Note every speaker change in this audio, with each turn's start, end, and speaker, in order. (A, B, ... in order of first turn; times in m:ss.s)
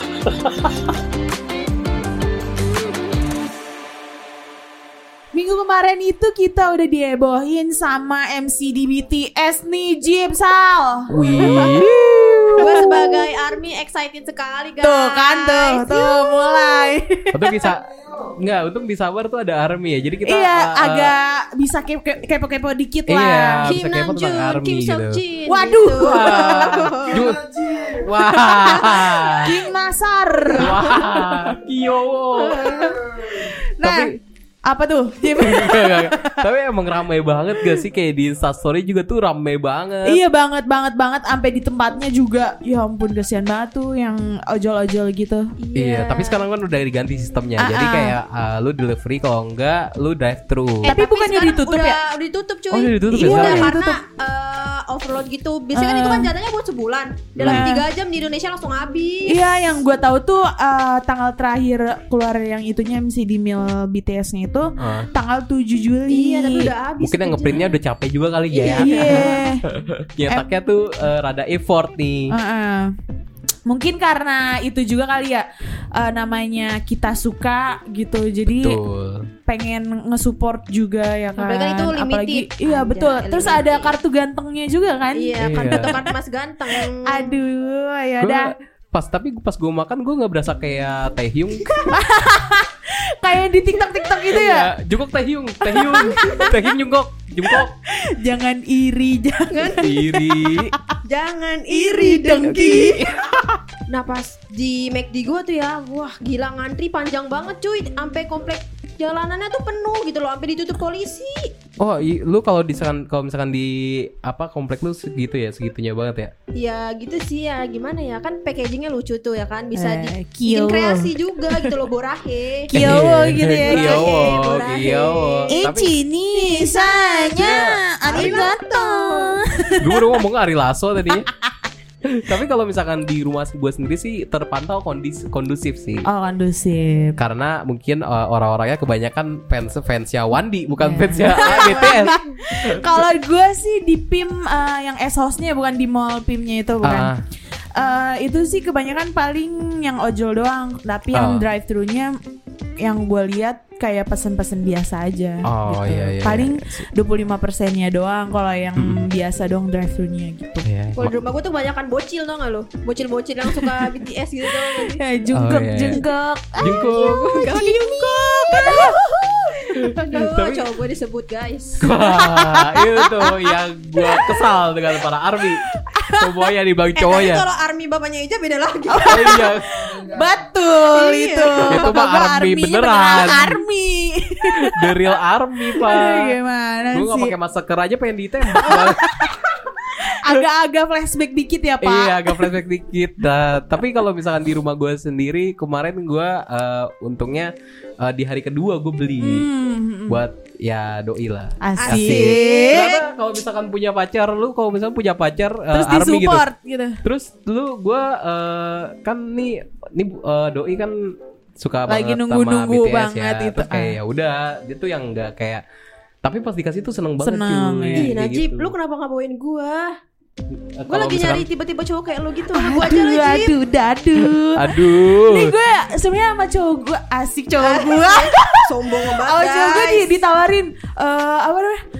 0:00.3-0:00.7 A
0:05.3-0:11.6 B
0:11.1-0:12.8 A
0:11.4-0:11.8 C
0:12.6-0:16.9 C
0:12.7-0:13.0 B
0:14.8-0:17.6 B
0:17.3-0:17.9 A
0:18.4-0:21.1 A
0:20.2-0:23.7 B
0:23.1-0:25.2 A
0:23.6-0:27.2 C
0:25.5-0:26.8 B
0:26.0-0:29.5 A
0:28.5-0:31.5 B
0:30.6-0:32.8 A
0:32.4-0:33.0 C
0:33.3-0:34.1 B
0:33.8-0:34.1 A
0:34.7-0:36.4 B
0:35.4-0:40.2 A
0:37.6-0:37.8 B
0:40.1-0:45.4 B
0:45.6-0:46.4 C
0:45.8-0:51.0 A
0:47.6-0:48.2 B
0:50.8-0:59.7 C
0:50.9-0:52.0 B
0:52.7-0:53.8 A
0:53.1-0:54.0 B
0:55.7-0:56.3 B
0:57.4-0:57.7 A
0:57.4-0:57.9 B
0:59.3-1:06.7 B
1:04.8-1:05.1 A
1:06.1-1:07.8 C
1:07.0-1:12.3 A
1:08.5-1:09.4 C
1:08.7-1:09.6 B
1:12.3-1:12.9 B
1:13.7-1:18.8 B
1:18.5-1:19.3 A
1:19.5-1:26.0 B
1:21.4-1:24.0 C
1:25.1-1:27.3 C
1:25.4-1:26.0 A
1:27.1-1:28.5 B
1:28.2-1:31.9 A
1:31.6-1:31.9 C
1:31.9-1:34.7 B
1:34.3-1:37.7 A
1:35.6-1:36.5 B
1:38.2-1:40.9 B
1:39.5-1:39.8 C
1:39.8-1:40.7 A
1:41.0-1:43.0 C
1:41.7-1:43.0 B
1:42.5-1:43.2 A
1:43.9-1:51.3 C
1:51.8-1:56.3 A
1:56.6-2:02.6 C
1:59.8-2:01.8 B
2:02.7-2:04.3 B
2:02.7-2:05.9 A
2:03.6-2:05.6 C
2:05.5-2:10.1 B
2:06.3-2:09.3 C
2:07.4-2:08.5 A
2:09.8-2:11.3 A
2:12.2-2:16.1 A
2:16.0-2:17.2 B
2:17.2-2:23.1 A
2:20.8-2:27.1 B
2:21.4-2:22.3 C
2:26.8-2:27.2 A
2:27.7-2:32.1 B
2:31.1-2:31.5 A
2:32.8-2:40.7 B
2:35.4-2:36.9 A
2:38.8-2:39.1 A
2:40.6-2:41.2 A
2:41.0-2:45.0 C
2:44.9-2:49.0 B
2:45.3-2:46.0 A
2:46.6-2:47.2 A
2:46.6-2:49.5 C
2:49.8-2:50.2 B
2:50.0-2:51.8 C
2:50.1-2:50.6 A
2:51.8-2:55.6 A
2:52.2-2:53.2 B
2:54.0-2:54.6 B
2:55.8-2:56.2 B
2:56.2-2:57.4 A
2:57.0-2:59.5 C
2:58.9-3:04.9 B
2:59.1-2:59.6 A
3:01.0-3:01.9 C
3:01.6-3:03.6 A
3:03.2-3:03.4 C
3:04.6-3:06.4 A
3:05.8-3:07.3 B
3:06.9-3:09.3 A
3:08.5-3:09.3 B
3:10.0-3:12.6 B
3:11.8-3:17.5 A
3:18.0-3:19.5 A
3:19.2-3:20.2 B
3:20.1-3:26.5 A
3:21.6-3:22.9 B
3:21.8-3:23.0 C
3:25.7-3:27.0 B
3:27.0-3:31.0 A
3:31.6-3:35.6 A
3:31.9-3:34.0 B
3:36.2-3:38.7 A
3:37.2-3:38.1 B
3:38.0-3:39.9 C
3:40.8-3:41.5 A
3:40.9-3:43.5 C
3:42.5-3:51.8 B
3:44.2-3:45.6 A
3:47.6-3:50.2 C